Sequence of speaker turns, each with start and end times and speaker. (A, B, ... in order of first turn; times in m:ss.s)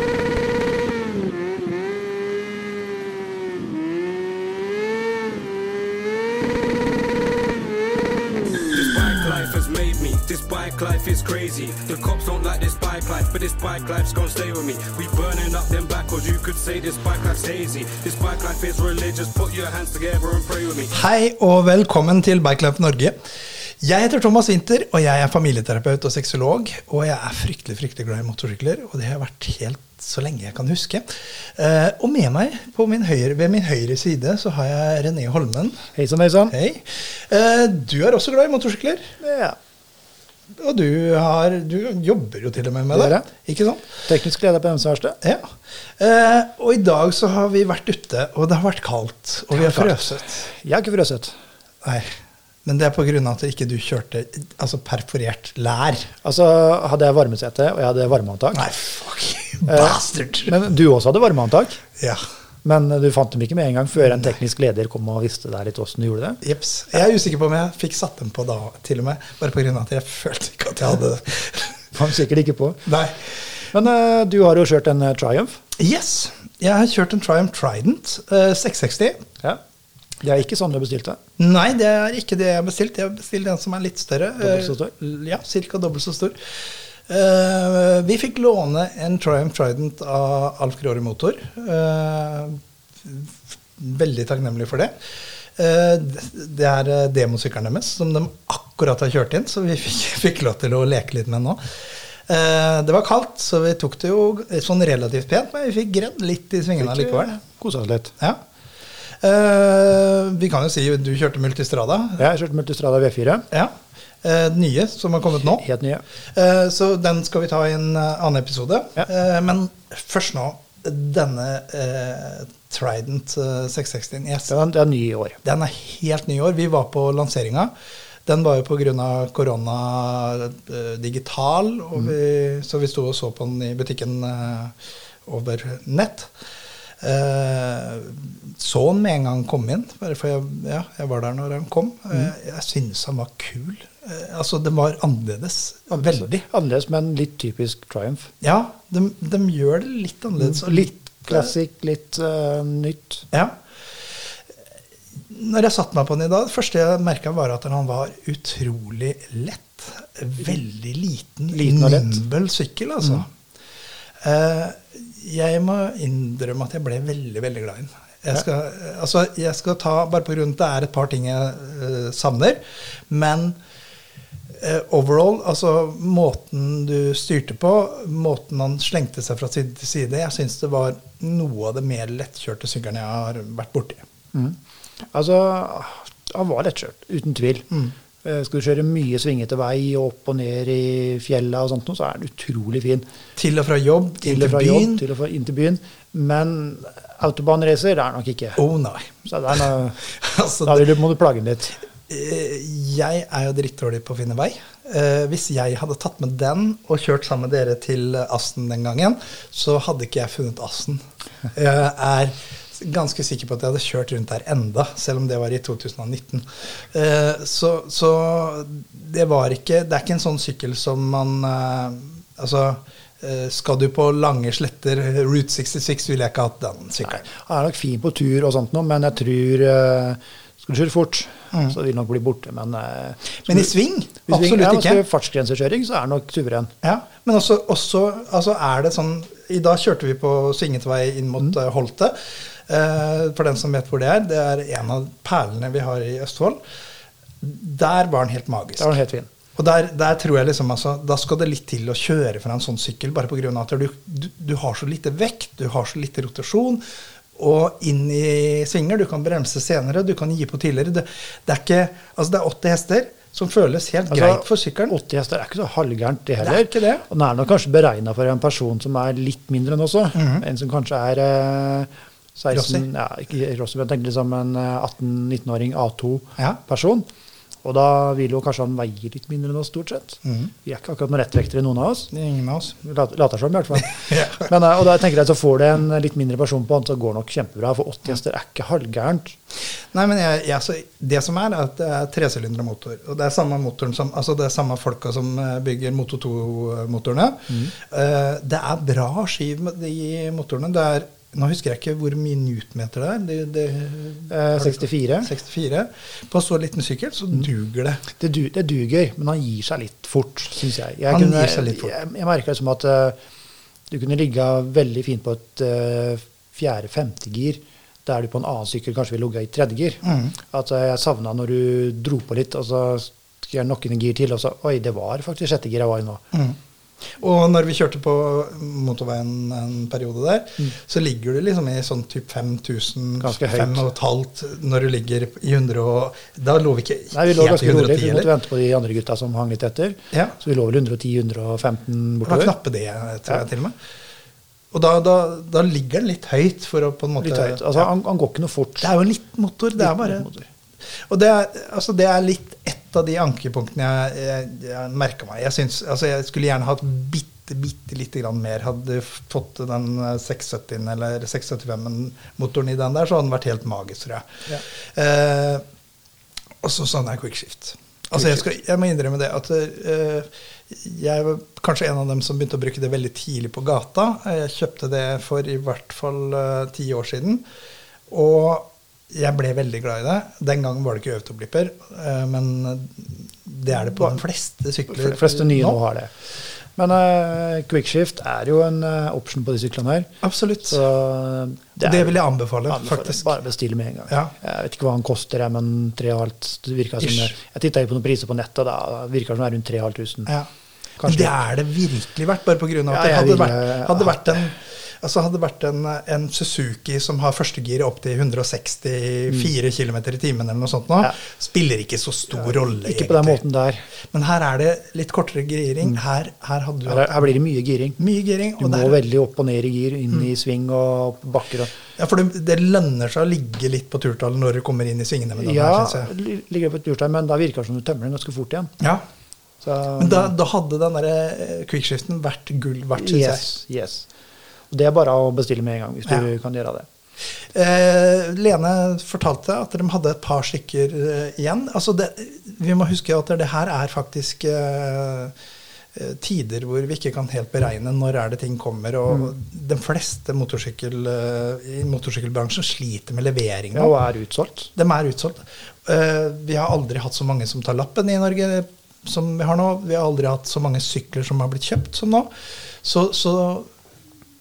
0:08.7-0:21.0 A
0:20.9-0:23.2 B
0:23.8-0:35.9 B
0:36.0-0:36.6 C
0:36.5-0:39.0 B
0:39.2-0:39.6 C
0:40.6-0:43.9 B
0:42.9-0:43.3 C
0:44.0-0:45.2 C
0:45.2-0:50.4 B
0:49.5-0:51.4 C
0:51.8-0:52.1 B
0:52.6-0:56.1 B
0:56.2-0:58.6 C
0:58.5-1:00.5 B
0:59.7-1:01.8 C
1:02.0-1:02.2 B
1:02.6-1:06.4 C
1:06.4-1:11.8 B
1:11.9-1:12.9 C
1:12.9-1:13.3 B
1:13.7-1:15.6 C
1:15.8-1:19.3 B
1:20.2-1:21.2 C
1:21.4-1:26.4 B
1:24.4-1:24.9 C
1:27.1-1:34.9 B
1:35.6-1:47.3 B
1:46.8-1:48.1 C
1:49.2-1:52.2 B
1:52.2-1:53.5 C
1:53.5-1:55.6 B
1:55.6-1:56.0 C
1:56.3-2:04.5 B
2:04.5-2:05.4 C
2:05.4-2:07.7 B
2:08.3-2:16.3 B
2:17.0-2:26.4 B
2:25.9-2:28.3 C
2:28.4-2:31.5 B
2:30.4-2:33.3 C
2:33.3-2:33.6 B
2:35.3-2:43.3 B
2:41.5-2:42.2 C
2:44.2-2:53.6 B
2:54.6-3:04.0 B
3:05.1-3:13.1 C
3:13.4-3:15.0 B
3:14.2-3:18.6 C
3:18.6-3:19.6 B
3:19.3-3:20.0 C
3:20.1-3:20.9 B
3:20.6-3:21.8 C
3:22.1-3:47.3 B
3:47.0-3:53.7 C
3:53.4-3:55.0 B
3:54.3-3:56.7 C
3:56.8-4:06.6 B
4:07.4-4:08.9 B
4:08.8-4:09.3 C
4:09.6-4:16.8 B
4:17.4-4:25.0 B
4:24.1-4:37.1 C
4:26.4-4:27.0 B
4:30.2-4:30.4 B
4:32.5-4:32.8 B
4:37.6-4:42.1 C
4:40.2-4:40.5 B
4:42.1-4:42.8 B
4:42.8-4:49.4 C
4:43.8-4:44.5 B
4:49.7-5:08.0 B
5:04.3-5:05.3 C
5:08.1-5:13.2 C
5:11.1-5:11.9 B
5:13.9-5:26.2 C
5:20.0-5:20.3 B
5:26.3-5:26.6 B
5:27.2-5:38.3 B
5:33.2-5:33.8 C
5:37.1-5:42.6 C
5:42.2-5:43.8 B
5:44.7-5:47.9 B
5:47.2-5:48.9 C
5:48.8-5:50.3 B
5:49.8-5:50.5 C
5:51.0-6:05.6 B
6:06.6-6:17.4 B
6:18.1-6:25.8 B
6:24.9-6:26.1 C
6:26.8-6:30.1 C
6:30.2-6:30.8 B
6:30.7-6:40.3 C
6:31.8-6:33.3 B
6:37.0-6:37.3 B
6:41.0-6:41.3 C
6:41.0-6:53.4 B
6:42.9-6:44.5 C
6:52.3-6:53.9 C
6:54.1-6:57.3 B
6:56.9-6:58.0 C
6:58.0-6:59.0 B
6:58.6-7:01.7 C
7:02.0-7:06.1 B
7:05.4-7:08.7 C
7:08.8-7:09.0 B
7:09.6-7:10.3 C
7:10.0-7:13.5 B
7:13.0-7:14.1 C
7:14.7-7:16.9 C
7:17.5-7:25.4 B
7:25.9-7:34.0 B
7:33.7-7:34.7 C
7:34.8-7:42.3 B
7:42.8-7:43.7 B